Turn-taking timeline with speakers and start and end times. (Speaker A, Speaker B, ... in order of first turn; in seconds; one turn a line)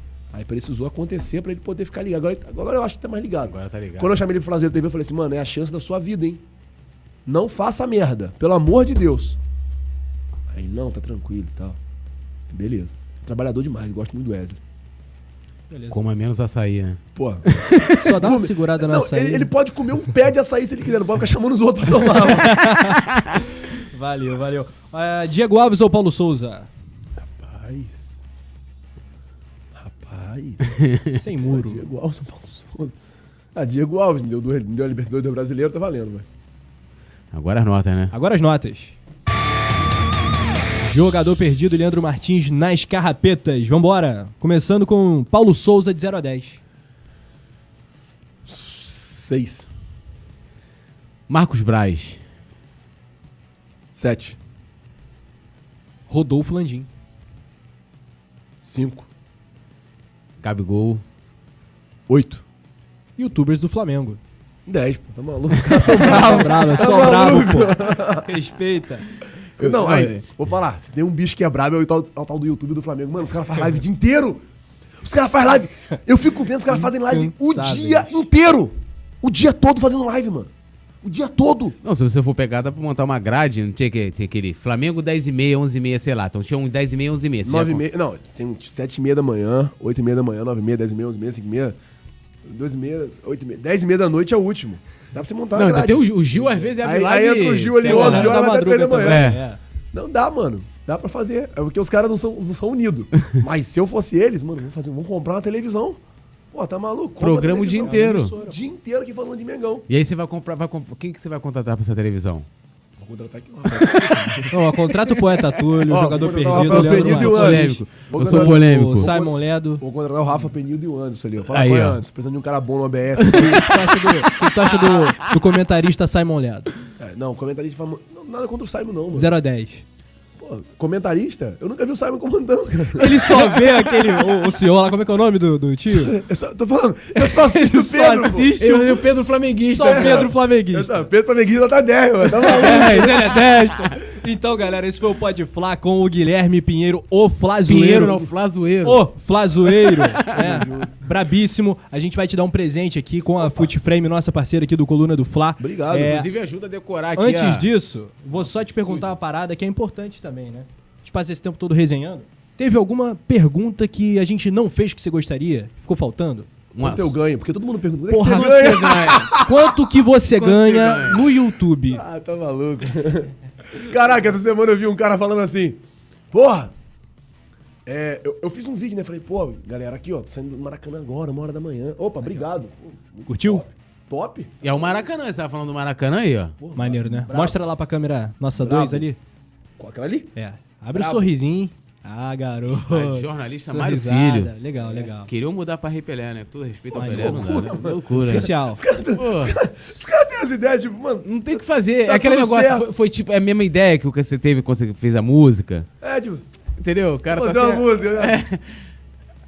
Speaker A: 0.3-6.4
Speaker B: 3.5-4.2
Speaker A: 7.2-9.4
Speaker A: 10.5-11.8
Speaker A: 12.5-14.6
Speaker C: 15.7-16.0
Speaker B: 15.9-17.9
Speaker A: 17.1-22.6
Speaker C: 17.9-19.5
Speaker C: 22.2-26.7
Speaker A: 27.2-28.2
Speaker A: 29.7-30.8
Speaker B: 30.8-31.1
Speaker C: 31.1-31.8
Speaker A: 31.4-33.0
Speaker A: 33.5-36.3
Speaker B: 37.3-38.1
Speaker C: 38.1-39.0
Speaker C: 40.9-46.6
Speaker A: 48.5-49.7
Speaker B: 51.3-52.2
Speaker A: 53.9-54.4
Speaker C: 56.1-56.9
Speaker A: 58.6-59.1
Speaker B: 60.4-61.0
Speaker A: 62.1-62.4
Speaker C: 63.2-64.2
Speaker A: 64.7-68.3
Speaker C: 65.8-69.1
Speaker B: 69.6-70.2
Speaker A: 69.6-74.4
Speaker A: 75.0-81.8
Speaker C: 76.7-78.1
Speaker B: 81.8-87.8
Speaker A: 87.4-91.8
Speaker A: 92.4-96.0
Speaker B: 95.5-98.4
Speaker C: 96.4-96.7
Speaker A: 96.8-99.3
Speaker C: 97.8-99.6
Speaker B: 99.0-99.4
Speaker A: 99.9-106.0
Speaker A: 106.5-109.8
Speaker B: 107.2-108.3
Speaker C: 107.8-108.6
Speaker B: 109.9-112.5
Speaker A: 113.0-114.6
Speaker B: 113.7-114.4
Speaker C: 114.5-119.8
Speaker A: 115.8-123.8
Speaker B: 116.5-119.1
Speaker B: 121.5-122.0
Speaker B: 123.2-125.1
Speaker C: 123.3-126.7
Speaker A: 127.0-129.3
Speaker C: 129.1-129.8
Speaker A: 130.4-133.6
Speaker C: 132.9-136.2
Speaker A: 135.9-138.5
Speaker C: 137.2-139.0
Speaker B: 138.6-140.3
Speaker C: 139.7-141.0
Speaker A: 139.8-143.3
Speaker C: 142.4-148.3
Speaker B: 147.7-149.1
Speaker C: 148.8-156.3
Speaker B: 150.3-150.7
Speaker A: 150.3-150.9
Speaker A: 155.6-156.2
Speaker B: 155.9-157.7
Speaker C: 157.2-166.5
Speaker B: 158.3-159.1
Speaker B: 166.7-167.1
Speaker A: 166.8-169.7
Speaker C: 168.1-168.9
Speaker B: 168.2-169.5
Speaker C: 169.4-172.0
Speaker B: 170.2-171.3
Speaker A: 171.9-176.7
Speaker A: 177.8-185.0
Speaker C: 183.3-183.6
Speaker B: 184.6-186.6
Speaker A: 186.6-187.6
Speaker C: 186.7-189.2
Speaker A: 188.5-189.1
Speaker A: 189.8-190.3
Speaker C: 190.3-195.3
Speaker A: 190.9-191.3
Speaker B: 192.7-194.6
Speaker B: 195.2-198.5
Speaker A: 196.9-202.9
Speaker C: 196.9-198.8
Speaker B: 199.1-199.6
Speaker B: 201.2-205.9
Speaker A: 206.0-206.4
Speaker B: 206.8-208.8
Speaker A: 207.3-208.4